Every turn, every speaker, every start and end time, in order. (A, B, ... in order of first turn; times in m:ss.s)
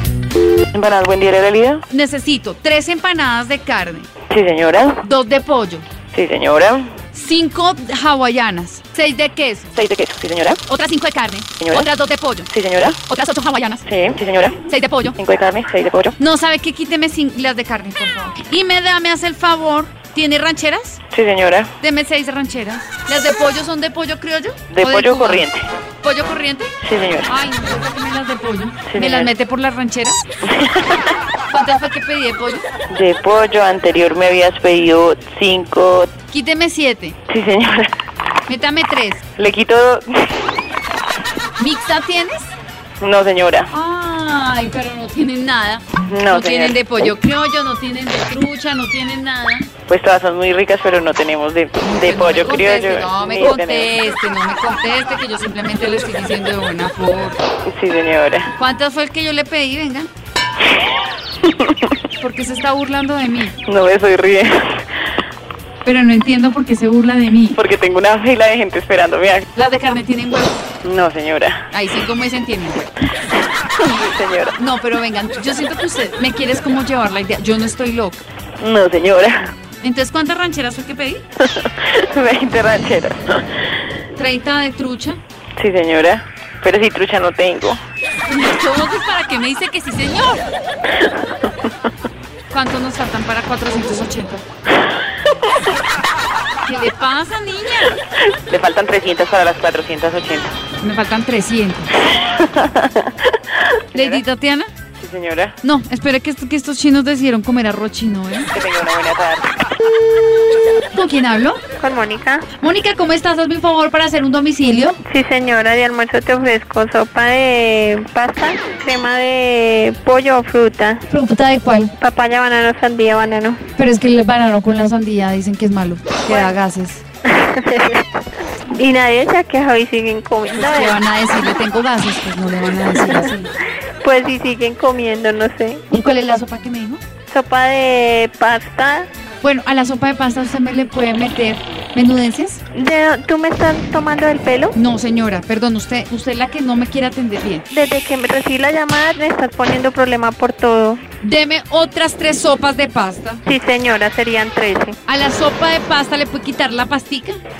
0:00.7-0:01.8 A
0:01.9-0:04.1 B
0:04.3-0:05.0 A
0:05.0-0:05.8 B
0:06.1-0:06.9 A
0:07.1-0:09.7 B
0:09.7-0:10.6 A
0:10.6-0:12.5 B
0:11.6-0:11.9 A
0:12.5-0:13.0 A
0:13.0-0:13.8 B
0:13.9-0:14.6 A
0:14.7-0:15.2 B
0:15.2-0:16.2 A
0:16.2-0:21.0 B
0:21.1-0:21.7 A
0:21.8-0:25.5 B
0:24.7-0:25.6 A
0:26.0-0:26.8 B
0:26.8-0:27.3 A
0:27.3-0:30.2 B
0:28.9-0:29.3 A
0:31.5-0:32.7 B
0:32.9-0:36.1 A
0:36.3-0:37.2 B
0:37.3-0:37.9 A
0:38.4-0:39.2 B
0:39.4-0:40.3 A
0:41.6-0:42.5 B
0:43.0-0:43.7 A
0:43.7-0:49.7 B
0:46.0-0:46.8 A
0:49.9-0:54.0 A
0:51.8-0:57.4 B
0:57.7-0:58.5 A
0:58.5-1:00.1 B
1:01.4-1:01.7 A
1:02.2-1:03.6 B
1:03.6-1:04.8 A
1:05.8-1:07.6 B
1:07.6-1:09.4 A
1:09.5-1:10.6 B
1:10.8-1:11.6 A
1:11.7-1:12.9 B
1:13.8-1:14.6 A
1:14.6-1:18.2 B
1:18.6-1:19.5 A
1:19.8-1:21.2 B
1:21.4-1:23.4 A
1:24.1-1:25.2 B
1:25.6-1:27.8 A
1:28.2-1:30.4 B
1:32.5-1:34.4 B
1:36.6-1:38.0 B
1:38.5-1:40.5 A
1:40.8-1:41.9 B
1:42.4-1:42.9 A
1:43.9-1:44.2 A
1:43.9-1:44.7 B
1:45.0-1:45.6 A
1:45.6-1:48.5 B
1:48.5-1:49.5 A
1:50.9-1:51.6 B
1:51.8-1:52.4 C
1:52.6-1:55.0 B
1:55.0-2:01.0 C
2:01.1-2:01.9 B
2:02.0-2:03.6 C
2:03.8-2:07.0 B
2:06.3-2:06.6 C
2:07.2-2:08.1 C
2:08.7-2:11.0 C
2:10.5-2:13.5 B
2:12.9-2:13.3 C
2:14.0-2:15.8 C
2:15.9-2:17.0 B
2:17.3-2:19.1 C
2:19.4-2:22.6 B
2:22.7-2:24.8 C
2:24.7-2:27.7 B
2:27.7-2:31.0 C
2:31.2-2:33.4 B
2:33.4-2:35.0 C
2:35.0-2:37.4 B